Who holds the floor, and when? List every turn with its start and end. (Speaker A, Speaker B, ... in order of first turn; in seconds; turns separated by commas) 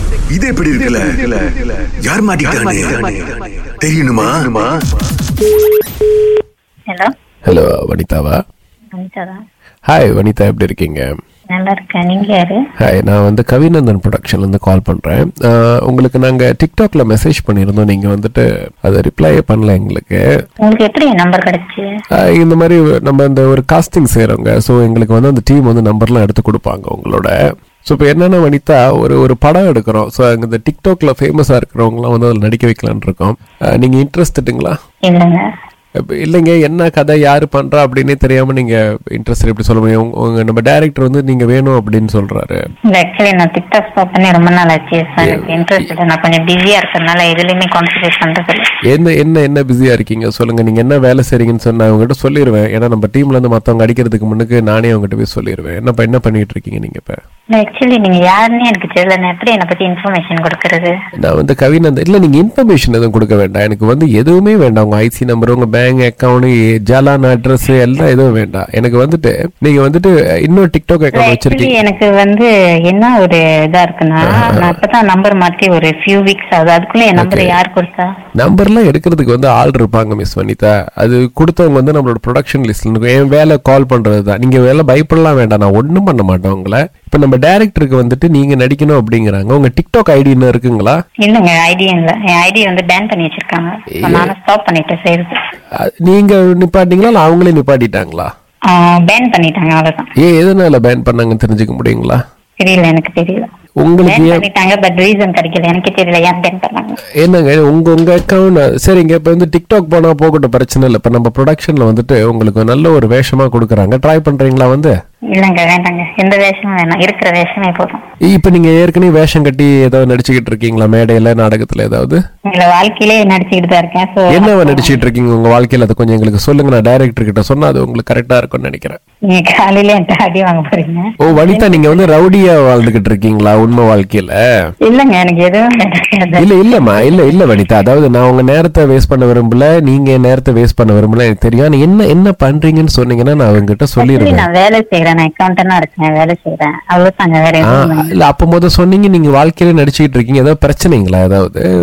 Speaker A: 0.3-4.8, Speaker B: 7.5-8.4, Speaker C: 8.9-9.4, Speaker B: 9.9-11.1, Speaker C: 11.5-12.6, Speaker B: 12.8-20.2, Speaker C: 20.6-21.8, Speaker B: 22.2-27.3, Speaker B: 27.8-34.8, Speaker C: 35.1-35.5, Speaker B: 36.0-42.6, Speaker C: 42.9-48.6, Speaker B: 45.2-45.9, Speaker B: 48.9-57.2, Speaker C: 57.5-60.9, Speaker B: 61.2-71.8, Speaker C: 71.1-78.1, Speaker B: 74.2-74.8, Speaker B: 77.2-77.5, Speaker B: 78.3-91.0, Speaker C: 91.2-95.3, Speaker B: 94.0-94.3, Speaker B: 95.8-98.3, Speaker C: 98.7-100.1, Speaker B: 100.2-102.2, Speaker C: 102.6-103.5, Speaker B: 103.8-104.5, Speaker C: 104.0-107.0, Speaker B: 107.2-114.9, Speaker C: 115.3-118.0, Speaker B: 118.3-122.2, Speaker C: 122.5-125.0, Speaker B: 124.3-129.0, Speaker C: 129.3-132.2, Speaker B: 131.2-134.4, Speaker C: 134.8-137.2, Speaker B: 136.4-144.4, Speaker C: 144.0-148.1, Speaker B: 147.6-151.7